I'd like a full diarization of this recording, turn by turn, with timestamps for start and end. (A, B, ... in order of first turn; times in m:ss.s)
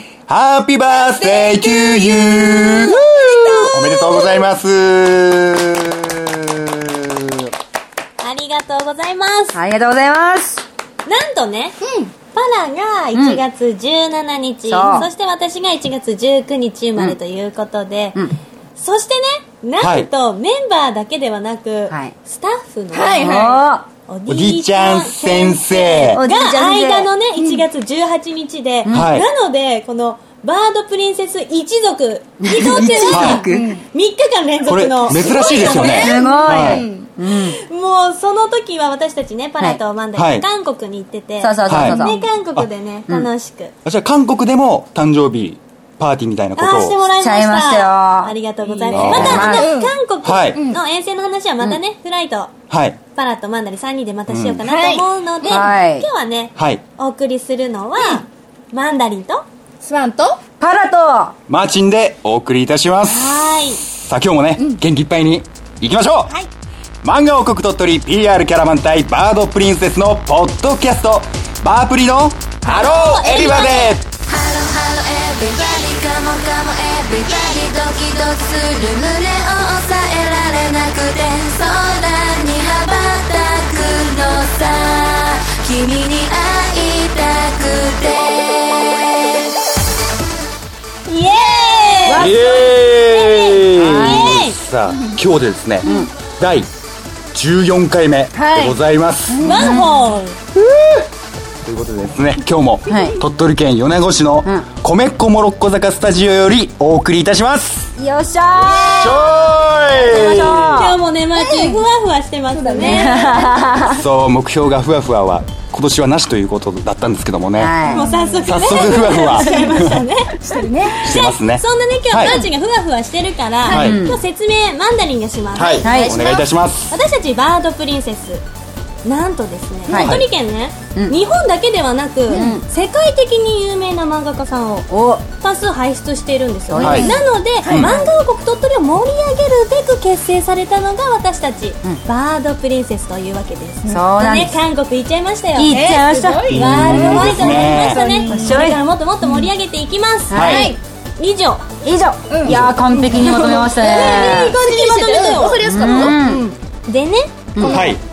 0:00.3-0:03.0 A
0:00.9-0:04.2 B
0:02.8-0:04.4 C
0:03.7-0:07.5 A
0:08.2-0:09.6 C
0:09.5-0:10.6 D
0:11.0-0:11.8 C
0:11.8-0:12.1 B
0:12.3-0:18.2 C
0:13.1-0:13.4 D
0:14.7-0:15.1 D
0:18.8-0:23.3 C
0:19.8-0:20.1 A
0:22.9-0:23.6 B
0:23.2-0:23.9 D
0:24.1-0:36.6 C
0:24.3-0:26.2 A
0:26.1-0:27.1 D
0:28.8-0:29.1 D
0:28.9-0:29.3 A
0:32.4-0:33.7 D
0:33.0-0:33.8 B
0:33.0-0:33.4 A
0:34.7-0:36.8 A
0:35.5-0:37.1 B
0:35.6-0:37.6 D
0:37.3-0:43.7 C
0:40.2-0:40.4 A
0:41.4-0:42.2 D
0:41.7-0:42.7 A
0:43.8-0:47.0 A
0:46.6-0:52.5 C
0:47.2-0:48.3 D
0:48.8-0:49.9 B
0:48.9-0:49.6 A
0:48.9-0:49.7 D
0:50.2-0:50.6 A
0:50.5-0:50.8 B
0:52.7-0:53.0 A
0:53.1-0:59.4 C
0:54.3-0:54.6 A
0:54.6-0:55.6 B
0:55.5-0:56.0 D
0:56.6-0:56.8 A
0:59.8-1:00.4 B
1:00.6-1:01.3 D
1:01.5-1:06.3 A
1:03.0-1:03.8 C
1:07.0-1:14.1 A
1:12.6-1:14.0 C
1:14.4-1:28.3 E
1:14.6-1:15.0 D
1:31.1-1:34.6 C
1:32.0-1:32.4 D
1:32.1-1:35.9 A
1:33.8-1:34.4 D
1:35.8-1:36.1 D
1:36.4-1:36.7 A
1:37.3-1:39.5 A
1:38.3-1:38.8 B
1:39.3-1:40.0 D
1:39.4-1:40.4 C
1:39.4-1:39.7 B
1:40.8-1:41.0 A
1:41.6-1:47.9 A
1:42.9-1:43.2 D
1:48.0-1:49.3 D
1:48.6-1:49.5 B
1:48.9-1:50.8 A
1:49.9-1:53.4 C
1:50.0-1:51.0 D
1:51.3-1:51.8 B
1:52.5-1:53.9 B
1:52.8-1:54.0 D
1:53.9-1:57.7 A
1:57.6-1:58.1 D
1:57.8-2:08.4 C
1:57.8-1:59.6 B
1:58.4-2:00.0 A
2:00.4-2:01.1 B
2:01.0-2:02.4 A
2:03.6-2:04.0 B
2:03.7-2:04.0 A
2:03.7-2:04.2 D
2:05.5-2:06.9 A
2:05.8-2:06.2 D
2:09.0-2:14.9 C
2:09.9-2:10.2 D
2:09.9-2:10.3 A
2:12.3-2:12.6 D
2:14.9-2:15.2 D
2:15.4-2:30.4 C
2:16.7-2:17.2 D
2:16.8-2:18.1 B
2:16.8-2:17.1 A
2:17.6-2:17.9 A
2:23.9-2:24.6 D
2:25.5-2:28.8 D
2:25.7-2:28.6 B
2:26.6-2:28.0 A
2:30.3-2:30.8 D
2:30.3-2:30.7 A
2:30.4-2:30.8 B
2:31.2-2:31.8 C
2:31.8-2:34.6 D
2:32.3-2:36.5 B
2:33.3-2:36.1 C
2:35.6-2:36.4 D
2:36.8-2:37.4 C
2:37.5-2:37.9 D
2:37.6-2:38.0 B
2:37.6-2:38.0 A